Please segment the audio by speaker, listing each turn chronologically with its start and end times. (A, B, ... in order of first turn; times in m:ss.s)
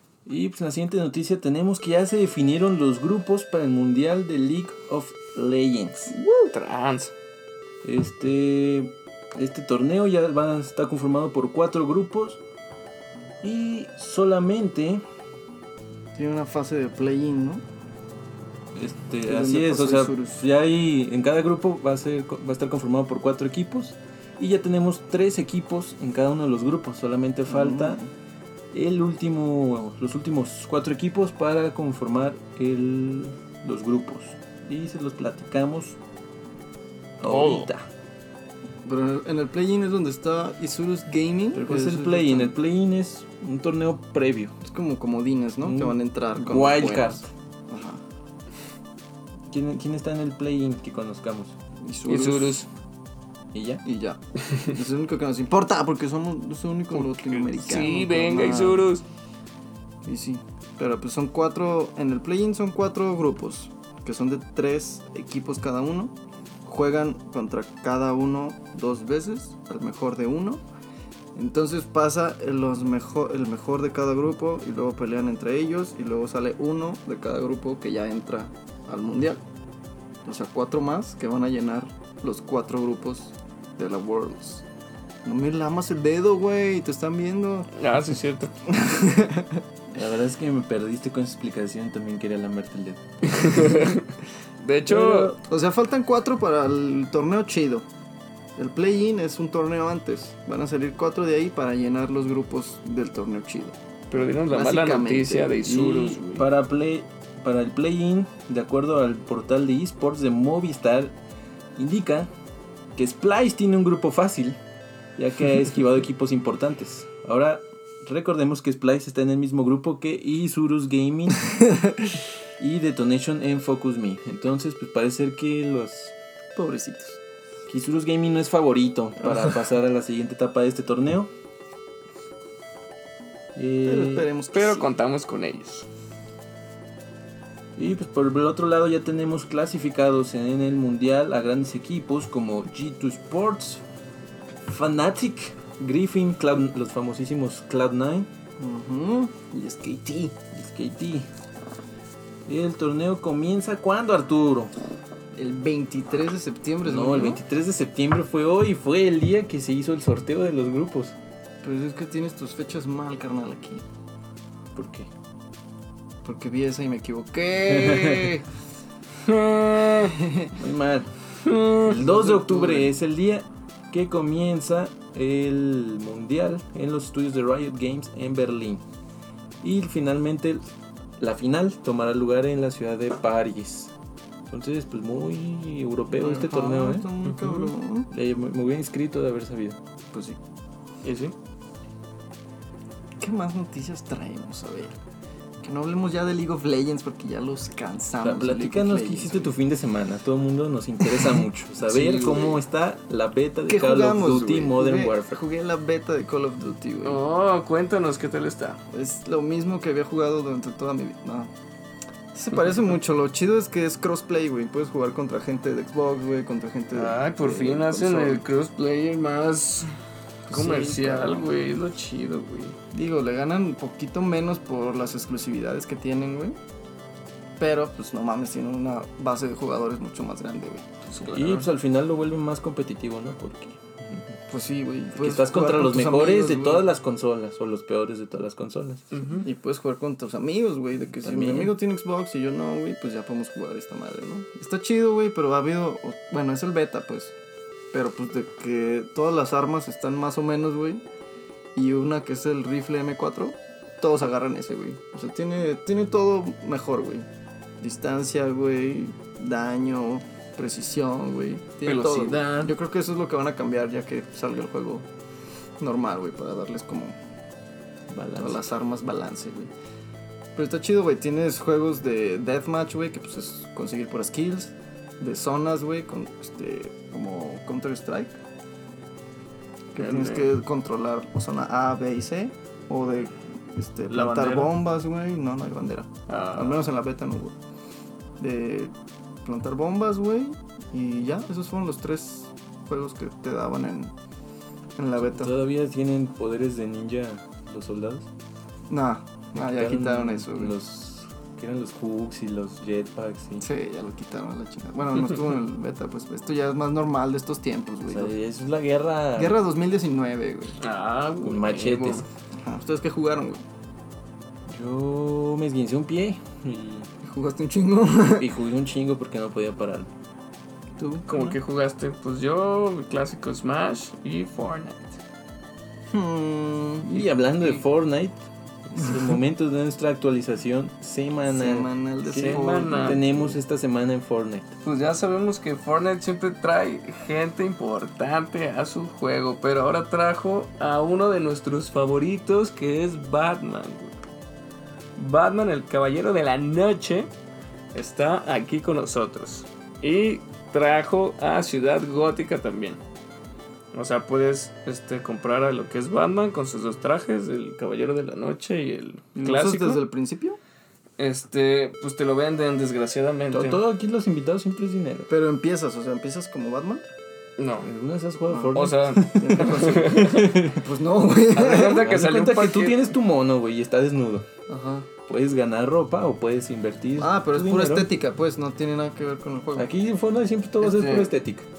0:00.2-0:06.1 A
0:06.2-0:06.5 B
0:06.4-0:07.1 C
0:07.8-0:12.4 A
0:13.4-0:15.0 A
0:16.2-0:17.6 B
0:18.7-0:28.0 A
0:19.2-0:20.4 B
0:27.5-0:28.1 B
0:28.7-0:36.0 A
0:37.2-0:37.9 A
0:37.2-0:37.7 C
0:38.8-0:42.5 B
0:41.5-0:44.5 A
0:44.6-0:48.0 B
0:45.6-0:47.3 A
0:49.5-0:51.6 A
0:51.8-0:52.6 B
0:52.1-0:52.7 C
0:53.5-0:53.8 A
0:53.8-0:58.9 B
0:57.0-0:59.0 C
1:00.0-1:10.6 B
1:11.3-1:19.4 B
1:20.2-1:24.6 B
1:25.2-1:27.7 B
1:27.8-1:28.5 C
1:28.7-1:29.6 B
1:29.9-1:33.8 A
1:33.3-1:34.1 C
1:34.6-1:35.3 C
1:34.9-1:35.4 A
1:35.4-1:37.9 B
1:38.6-1:43.8 B
1:44.1-1:46.4 C
1:44.5-1:45.6 B
1:45.6-1:51.2 A
1:51.8-1:52.3 A
1:52.9-1:54.6 A
1:55.2-2:01.5 A
2:01.6-2:02.0 B
2:02.6-2:06.1 A
2:06.6-2:07.2 B
2:07.7-2:11.3 A
2:13.5-2:14.3 A
2:13.8-2:14.9 B
2:14.5-2:15.9 C
2:17.8-2:23.8 A
2:24.7-2:28.3 A
2:28.6-2:30.4 B
2:30.5-2:31.3 A
2:32.4-2:34.7 A
2:35.4-2:37.4 B
2:36.8-2:41.2 A
2:41.6-2:43.8 B
2:44.7-2:45.1 A
2:46.2-2:48.4 B
2:47.7-2:48.3 A
2:49.2-2:50.2 C
2:50.0-2:50.5 B
2:50.5-2:51.1 A
2:51.4-2:52.0 C
2:51.8-2:58.8 A
2:51.9-2:52.9 B
2:59.6-3:00.6 A
3:01.2-3:03.9 A
3:04.5-3:07.1 A
3:06.1-3:08.1 B
3:08.1-3:09.8 A
3:10.1-3:10.4 B
3:11.0-3:11.3 C
3:13.2-3:15.0 B
3:15.6-3:19.5 B
3:18.2-3:25.4 A
3:21.9-3:22.6 C
3:23.7-3:27.2 B
3:27.0-3:28.8 C
3:28.9-3:31.5 B
3:32.3-3:38.5 B
3:36.9-3:39.9 C
3:40.5-3:41.5 B
3:40.5-3:42.8 C
3:42.9-3:46.6 B
3:47.6-3:51.4 B
3:51.1-3:51.6 C
3:51.3-3:54.4 A
3:54.5-3:56.8 B
3:55.1-3:59.1 A
3:59.1-3:59.5 C
3:59.4-4:07.3 B
4:01.2-4:01.7 A
4:07.9-4:11.0 B
4:11.7-4:17.3 B
4:17.8-4:25.1 B
4:21.8-4:22.7 C
4:25.8-4:27.1 B
4:28.1-4:28.7 A
4:28.4-4:29.7 B
4:30.6-4:38.4 B
4:39.9-4:47.6 B
4:40.0-4:40.5 C
4:44.1-4:44.7 C
4:46.3-4:46.9 C
4:48.4-4:48.9 B
4:49.4-4:54.1 B
4:55.0-4:55.5 B
4:55.2-4:58.3 A
4:58.9-5:00.7 B
4:59.6-5:03.7 A
5:03.6-5:08.3 B
5:08.1-5:09.6 A
5:09.4-5:10.8 B
5:10.8-5:12.2 C
5:11.4-5:12.2 A
5:12.6-5:13.6 B
5:14.7-5:17.1 A
5:17.2-5:18.5 B
5:18.4-5:20.1 A
5:21.0-5:21.6 B
5:21.3-5:25.2 C
5:26.1-5:27.1 B
5:27.0-5:34.7 A
5:31.5-5:33.6 B
5:32.3-5:33.2 C
5:34.8-5:44.1 C
5:45.2-5:47.3 C
5:47.9-5:53.0 C
5:53.9-6:00.0 C
5:59.3-6:00.6 B
6:01.2-6:03.8 C
6:03.5-6:05.3 A
6:05.3-6:07.0 B
6:07.6-6:07.9 C
6:07.8-6:10.8 A
6:08.5-6:12.0 B
6:08.7-6:10.5 C
6:11.5-6:13.1 C
6:11.9-6:14.5 A
6:14.7-6:15.1 B
6:15.2-6:18.1 A
6:17.2-6:19.9 B
6:19.8-6:21.7 A
6:20.8-6:21.3 C